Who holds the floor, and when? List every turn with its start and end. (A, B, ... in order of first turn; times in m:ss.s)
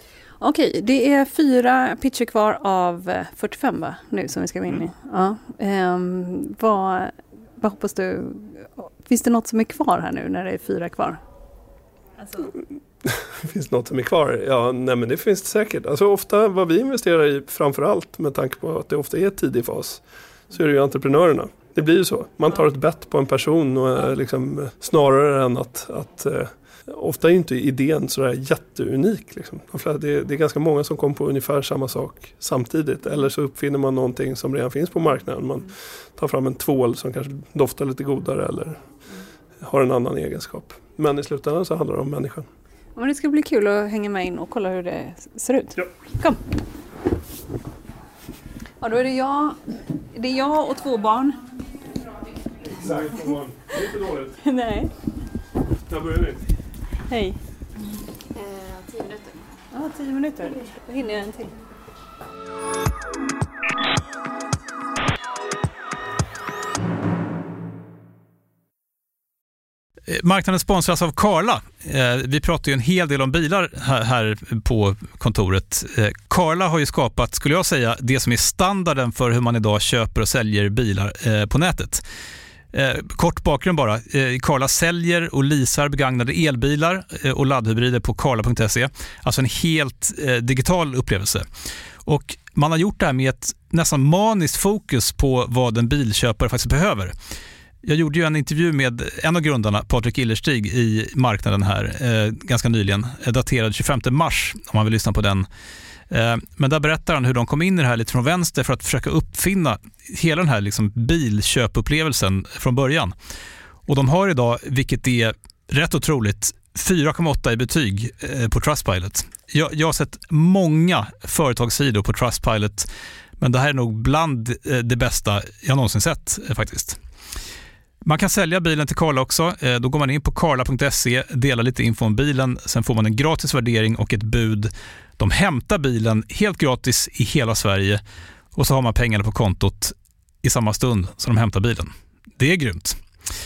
0:00.4-0:11.2 A
0:13.0-0:38.8 B
0:39.6-0:42.5 B
0:43.0-0:46.4 A
0:48.8-0:49.6 A
0:50.1-0:51.4 A
0:52.6-0:54.4 B
0:54.4-0:54.9 A
0:55.9-0:56.4 B
0:57.1-0:57.4 A
0:59.7-1:01.6 A
1:10.1-1:22.0 C
1:22.7-1:31.4 C
1:32.0-1:37.1 C
1:37.8-1:45.5 C
1:46.1-1:53.1 C
1:53.9-2:02.9 C
2:03.4-2:07.0 C
2:08.0-2:18.0 C
2:18.5-2:23.0 C